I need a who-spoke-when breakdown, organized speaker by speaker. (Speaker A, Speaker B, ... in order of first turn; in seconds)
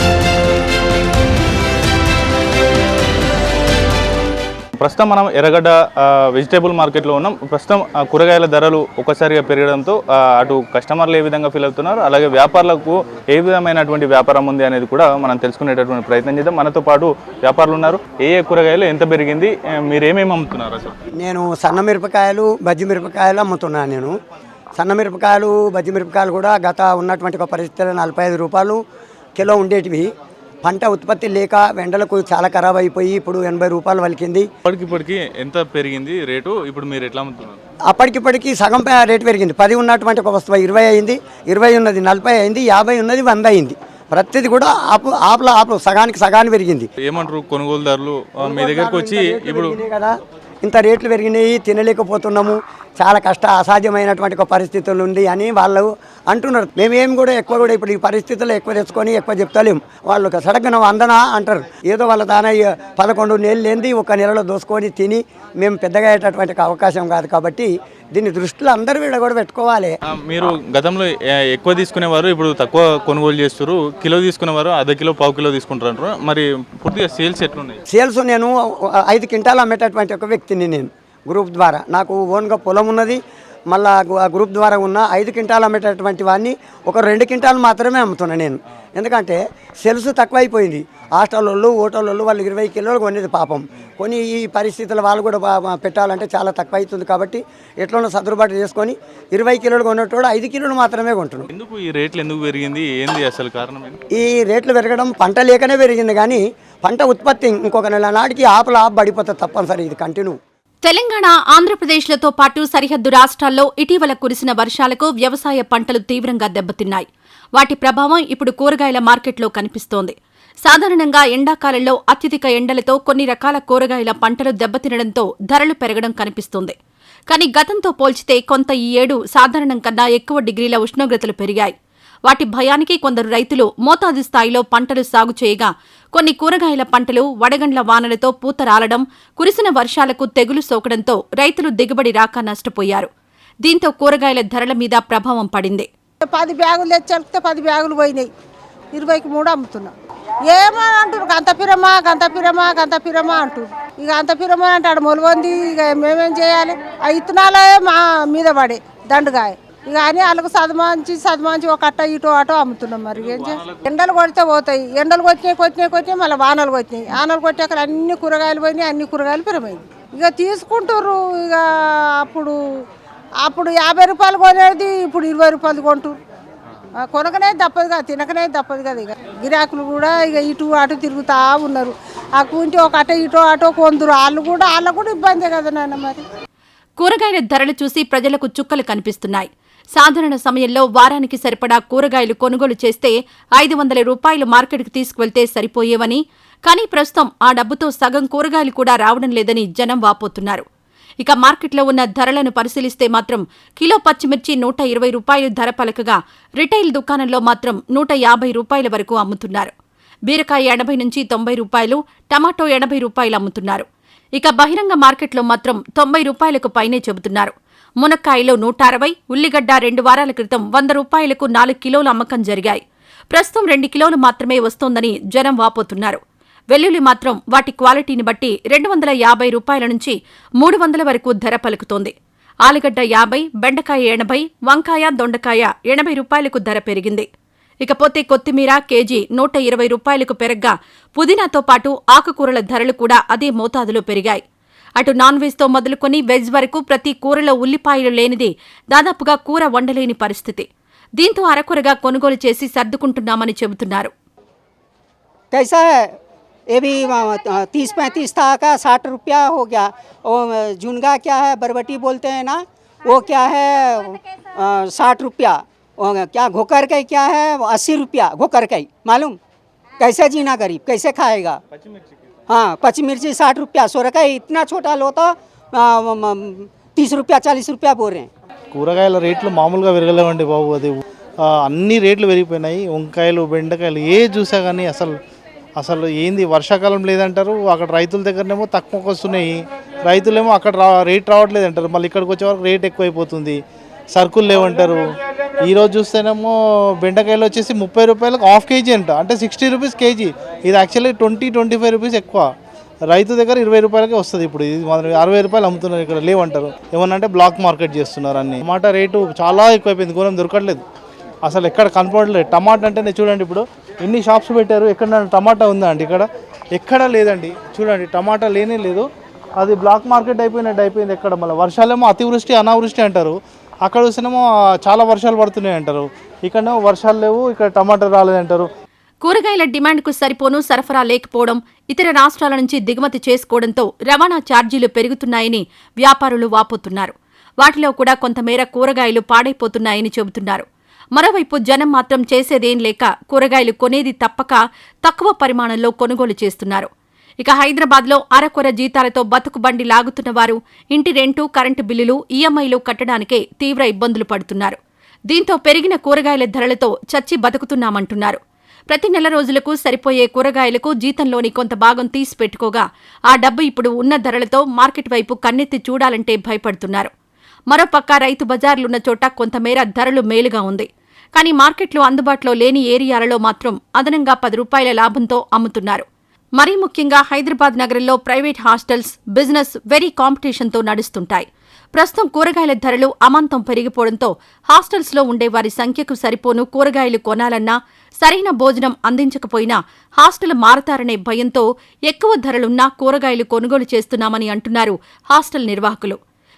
Speaker A: 4.8-20.9, 34.7-37.6, 47.0-49.8, 70.1-77.8, 101.5-104.0
Speaker B: 21.2-24.1, 24.8-28.8, 29.4-30.1, 30.6-34.5, 37.9-46.9, 48.4-69.9, 77.9-101.5, 104.2-110.4
Speaker C: 110.8-126.7, 127.3-131.7, 132.3-143.1, 143.6-145.9, 187.0-200.6, 201.2-209.7, 210.3-226.2, 226.7-232.1, 232.6-237.3, 237.8-244.4, 245.0-254.1, 329.2-346.9, 347.4-354.8, 355.3-358.4, 358.9-367.1, 367.7-376.1, 376.6-396.2
Speaker D: 146.2-148.3, 148.9-149.9, 150.5-172.6, 173.4-176.2, 176.9-186.2
Speaker E: 255.5-256.1, 256.7-269.4, 270.0-271.6, 272.5-278.3
Speaker F: 278.7-285.1, 285.8-293.6, 294.1-295.0, 295.6-296.5, 297.0-302.5, 303.1-310.8, 311.4-319.0, 319.6-328.7